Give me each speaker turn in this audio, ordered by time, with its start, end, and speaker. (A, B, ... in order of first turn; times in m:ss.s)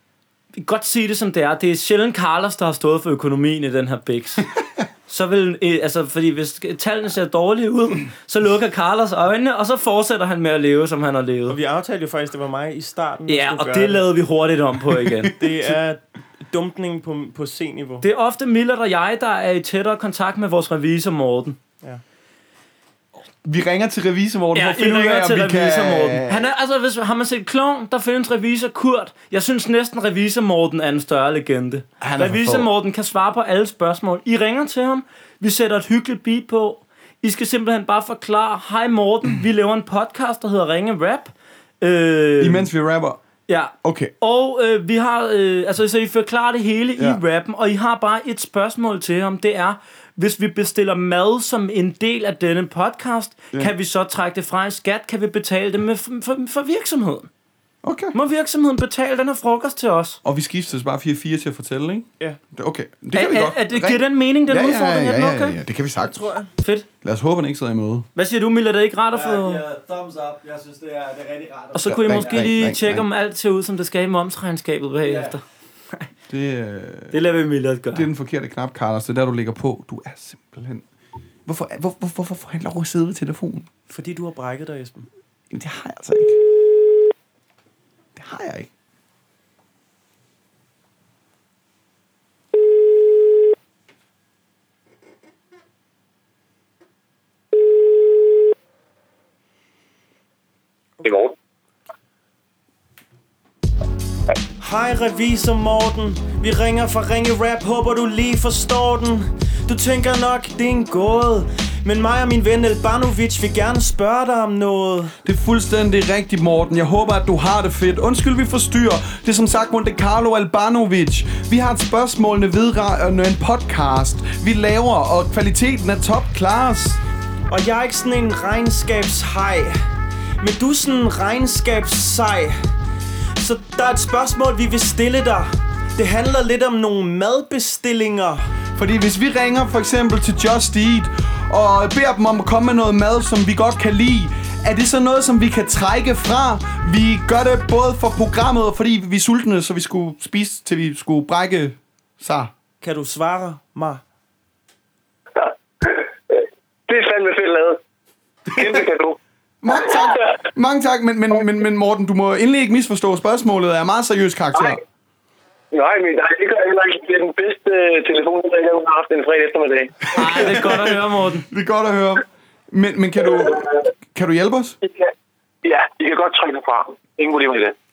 0:00.6-0:04.5 A
0:05.1-0:11.6 A
0:11.5-0:14.1 B
0:13.3-0:15.3 A
0:15.4-0:18.0 B
0:18.0-0:21.6 A
0:23.4-0:26.5 C
0:24.5-0:42.7 A
0:32.0-0:32.7 C
0:42.4-0:43.2 C
0:43.5-0:57.3 A
0:43.8-0:44.1 C
0:57.8-0:58.1 C
0:58.1-1:00.2 A
1:00.2-1:06.2 C
1:03.1-1:05.6 A
1:06.0-1:06.5 B
1:06.6-1:06.9 A
1:07.0-1:08.1 C
1:08.1-1:09.6 A
1:09.1-1:12.6 D
1:11.7-1:15.4 A
1:11.8-1:13.0 C
1:15.0-1:15.4 D
1:16.3-1:17.1 C
1:17.1-1:18.1 A
1:17.9-1:20.8 C
1:21.4-1:23.7 C
1:23.9-1:25.1 B
1:25.5-1:26.4 C
1:28.2-1:28.7 C
1:41.0-1:41.3 E
1:44.6-1:55.1 B
1:55.2-2:07.0 C
2:07.5-2:09.8 B
2:10.4-2:12.6 B
2:13.4-2:18.4 B
2:18.8-2:32.5 C
2:32.8-2:34.0 B
2:35.4-2:36.0 E
2:36.9-2:37.8 E
2:38.5-2:39.2 E
2:39.6-2:44.8 C
2:45.7-2:49.9 E
2:50.1-2:51.5 A
2:50.2-2:54.8 C
2:54.8-2:55.1 E
2:55.6-2:57.7 E